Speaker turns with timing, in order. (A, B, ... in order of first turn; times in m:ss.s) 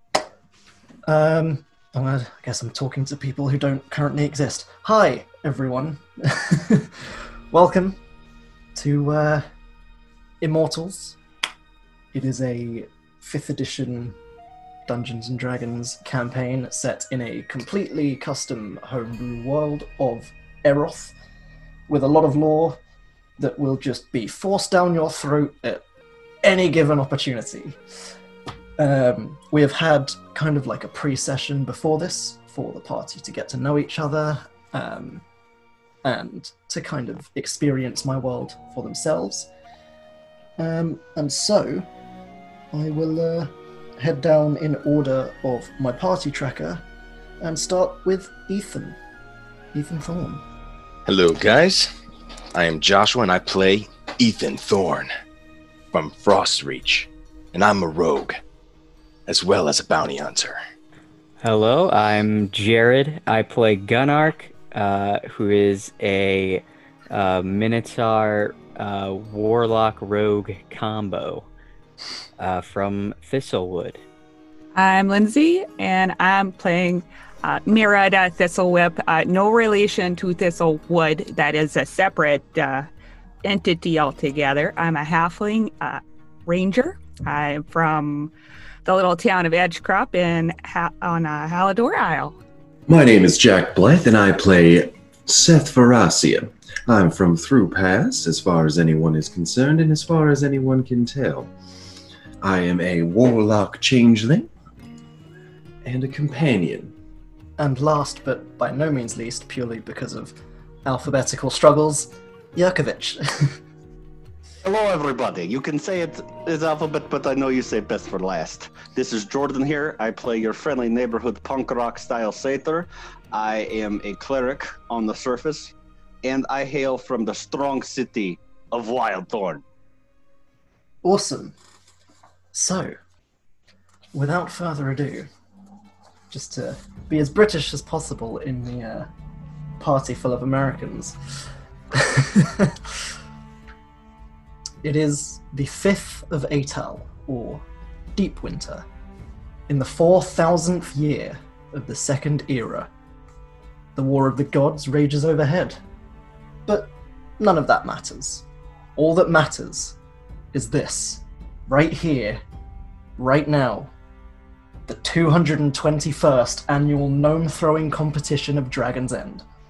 0:01.1-0:08.0 A
0:08.8-0:09.5 A
0:10.4-0:11.2 A
0:12.1-0:14.2 A
0:14.9-0:21.2 A
0:21.9-0:22.8 A
0:23.4-0:25.8 A
0:26.4-0:27.8 A
0:28.8-0:35.2 A
0:36.0-0:39.5 A
0:40.6-0:41.9 A
0:42.7-0:46.8 A
0:47.4-0:49.0 A
0:49.7-0:50.4 A
0:51.1-0:51.9 B
0:52.5-0:55.1 B
0:55.9-0:58.4 B
0:59.3-1:00.6 B
1:01.4-1:11.5 C
1:12.4-1:14.0 C
1:14.8-1:22.9 D
1:23.4-1:28.3 D
1:28.8-1:32.4 D
1:32.9-1:41.5 E
1:42.4-1:44.5 E
1:45.8-1:46.9 E
1:47.6-1:53.6 A
1:54.6-2:05.7 F
2:06.2-2:09.6 F
2:11.0-2:11.6 A
2:12.5-2:13.0 A
2:14.1-2:15.3 A
2:16.3-2:19.1 A
2:19.8-2:21.2 A
2:21.9-2:22.8 A
2:24.8-2:28.8 A
2:29.7-2:32.9 A
2:34.0-2:35.8 A
2:36.7-2:38.4 A
2:39.0-2:40.0 A
2:40.5-2:42.4 A
2:43.2-2:43.9 A
2:44.9-2:49.4 A